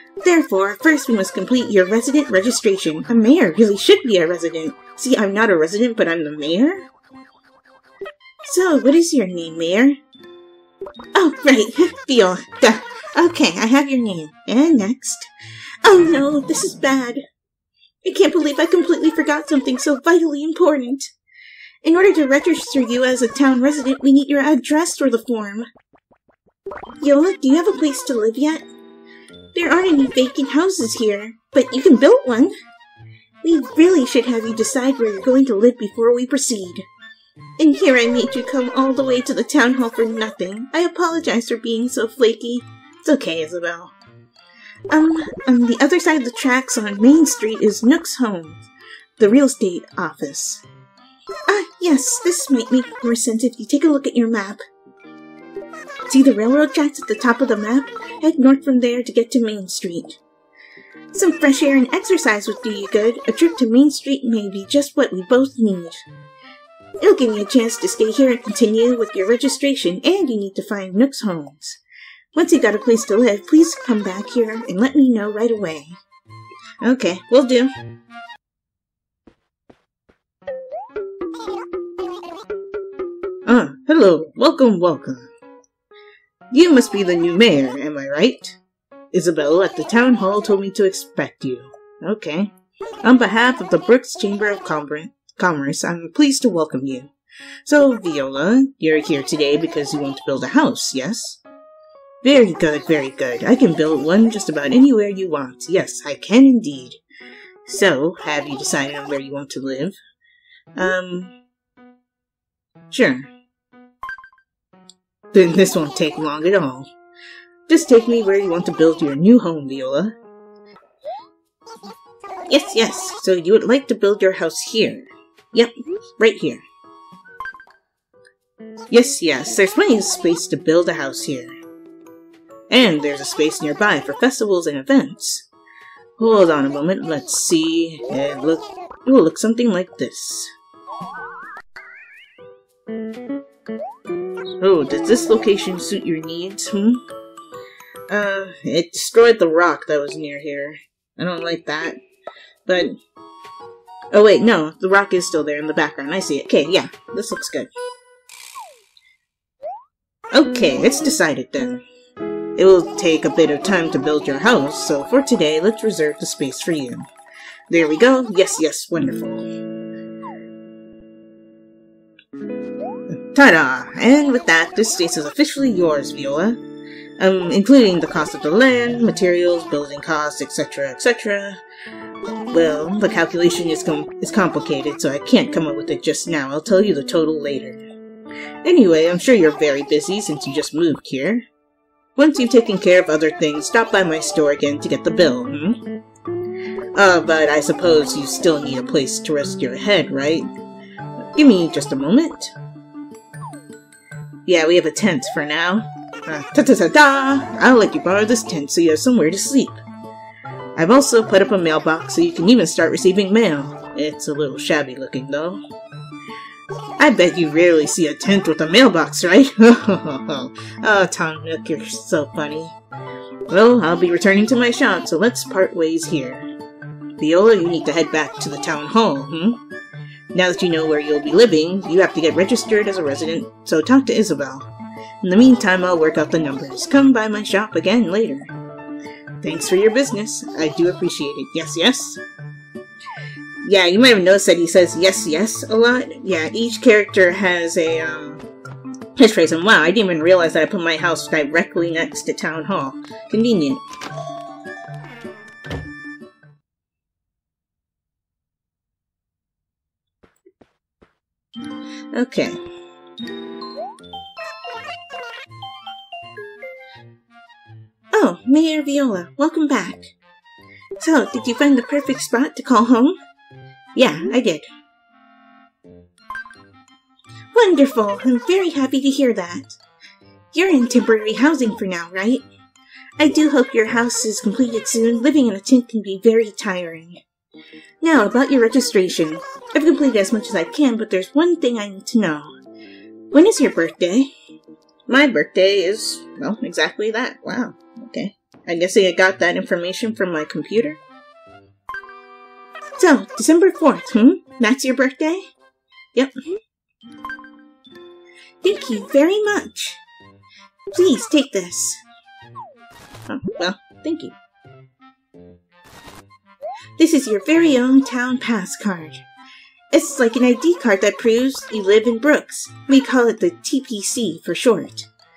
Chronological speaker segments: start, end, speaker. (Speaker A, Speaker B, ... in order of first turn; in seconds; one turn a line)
Speaker A: 0.2-6.8
Speaker A: 8.4-10.0
Speaker A: 11.1-15.3
Speaker A: 15.8-17.2
Speaker A: 18.0-21.1
Speaker A: 21.8-25.7
Speaker A: 27.0-28.6
Speaker A: 29.5-32.5
Speaker A: 33.4-36.9
Speaker A: 37.6-43.9
Speaker A: 44.9-48.6
Speaker A: 49.2-50.6
Speaker A: 51.5-54.6
Speaker A: 56.1-60.2
Speaker A: 61.1-66.0
Speaker A: 67.0-71.8
Speaker A: 72.3-76.0
Speaker A: 76.8-77.7
Speaker A: 83.5-85.3
Speaker A: 86.5-88.6
Speaker A: 89.1-92.5
Speaker A: 93.0-97.1
Speaker A: 97.6-101.4
Speaker A: 102.2-107.0
Speaker A: 107.7-110.0
Speaker A: 110.8-111.3
Speaker A: 112.9-113.3
Speaker A: 115.3-116.9
Speaker A: 117.7-120.1
Speaker A: 122.5-126.6
Speaker A: 128.9-131.5
Speaker A: 132.7-135.5
Speaker A: 136.2-140.5
Speaker A: 144.6-147.0
Speaker A: 148.1-152.0
Speaker A: 152.7-152.9
Speaker A: 154.1-157.7
Speaker A: 160.3-161.8
Speaker A: 162.6-167.1
Speaker A: 167.7-169.4
Speaker A: 173.3-176.6
Speaker A: 177.2-181.6
Speaker A: 182.5-187.8
Speaker A: 188.6-191.4
Speaker A: 192.2-195.8
Speaker A: 196.9-200.5
Speaker A: 201.3-202.5
Speaker A: 204.4-209.8
Speaker A: 210.8-215.6
Speaker A: 217.0-222.8
Speaker A: 223.5-226.5
Speaker A: 227.2-229.6
Speaker A: 230.3-234.7
Speaker A: 235.2-238.5
Speaker A: 239.4-242.2
Speaker A: 243.6-248.4
Speaker A: 249.2-253.8
Speaker A: 262.1-262.6
Speaker A: 268.1-270.1
Speaker A: 271.0-273.1
Speaker A: 273.9-274.7
Speaker A: 277.5-279.8
Speaker A: 280.5-282.4
Speaker A: 283.2-287.2
Speaker A: 288.0-292.5
Speaker A: 293.3-294.3
Speaker A: 295.1-301.0
Speaker A: 303.0-305.4
Speaker A: 308.6-310.0
Speaker A: 310.9-312.0
Speaker A: 313.3-314.3
Speaker A: 317.0-319.2
Speaker A: 319.9-325.1